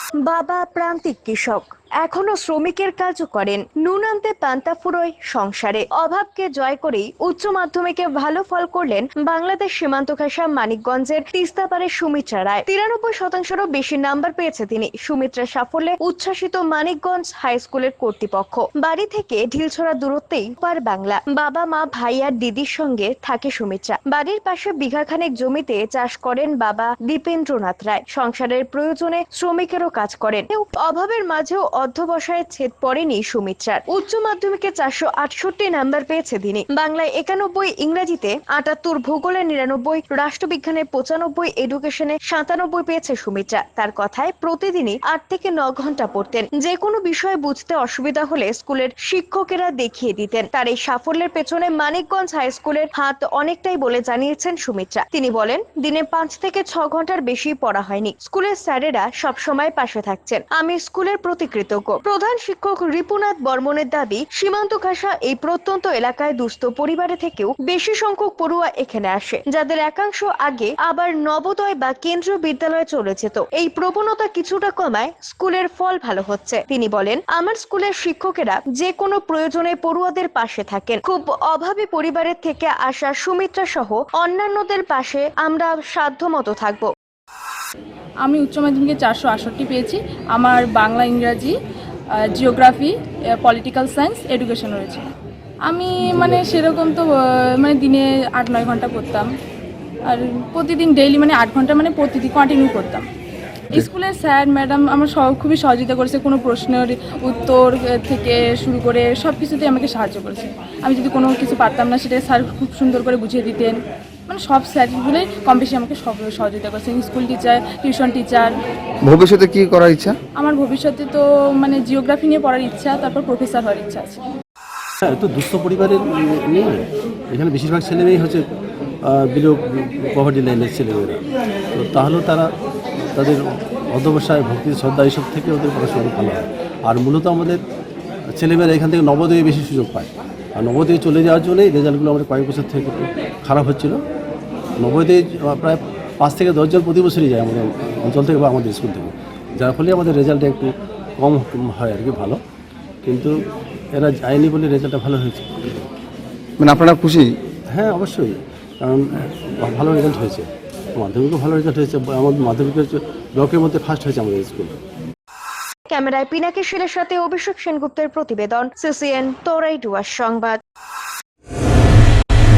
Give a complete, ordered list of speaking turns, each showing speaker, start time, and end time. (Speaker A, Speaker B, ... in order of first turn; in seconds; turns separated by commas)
Speaker A: 0.3-86.9, Speaker B: 88.2-91.5, Speaker B: 92.2-95.0, Speaker B: 95.7-99.3, Speaker B: 100.1-103.1, Speaker B: 103.7-118.5, Speaker C: 119.0-120.2, Speaker B: 120.4-124.2, Speaker D: 125.0-128.4, Speaker D: 129.1-131.2, Speaker D: 131.8-132.5, Speaker D: 133.2-133.4, Speaker D: 133.9-137.6, Speaker D: 138.3-144.0, Speaker D: 144.8-152.4, Speaker D: 153.1-153.3, Speaker D: 153.9-155.9, Speaker C: 156.6-157.4, Speaker D: 157.7-164.8, Speaker A: 165.9-170.6